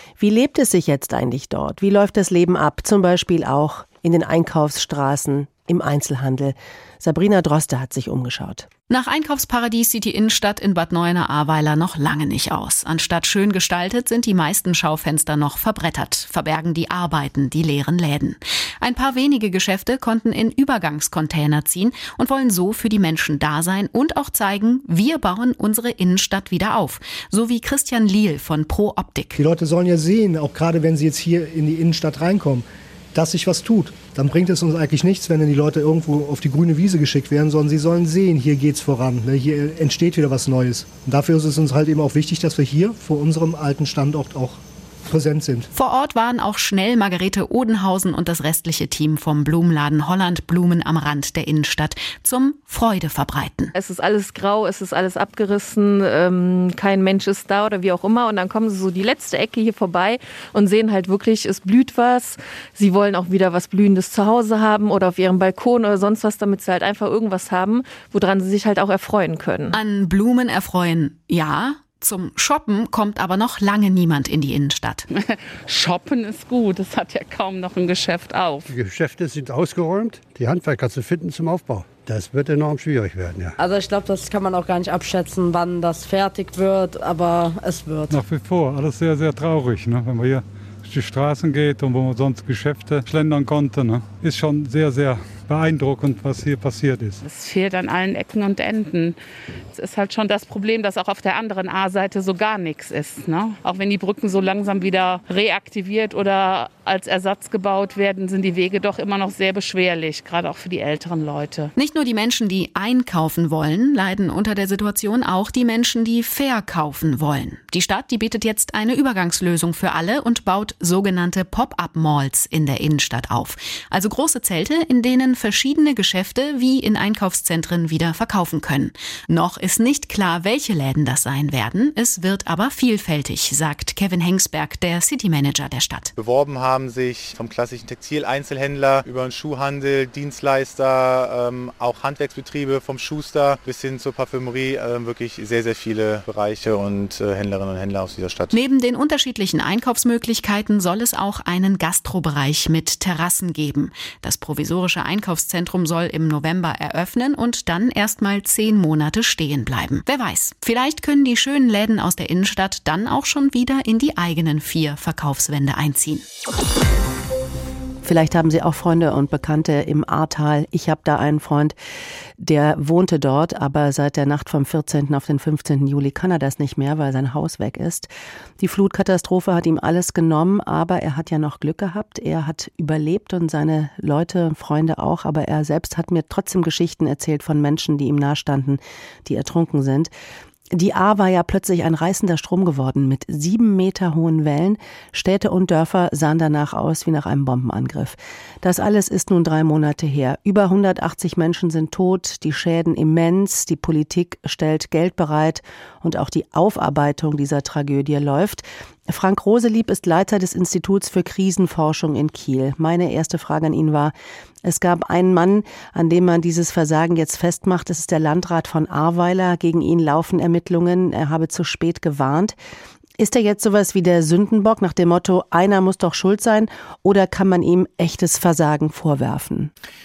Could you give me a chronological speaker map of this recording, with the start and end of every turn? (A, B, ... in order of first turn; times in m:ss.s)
0:00.2-0:08.7 A
0:08.9-0:29.4 B
0:29.4-0:45.7 C
0:45.7-0:53.7 B
0:53.8-1:09.7 D
1:09.7-1:15.1 B
1:15.1-1:18.7 E
1:18.7-1:23.5 F
1:23.3-1:28.2 G
1:28.1-1:37.2 H
1:37.3-1:39.2 E
1:39.8-1:51.7 E
1:51.8-2:16.1 B
2:16.2-2:28.6 I
2:28.5-2:46.2 B
2:48.0-2:51.8 A
2:52.4-3:10.1 A
3:10.7-3:42.6 A
3:43.2-3:49.7 A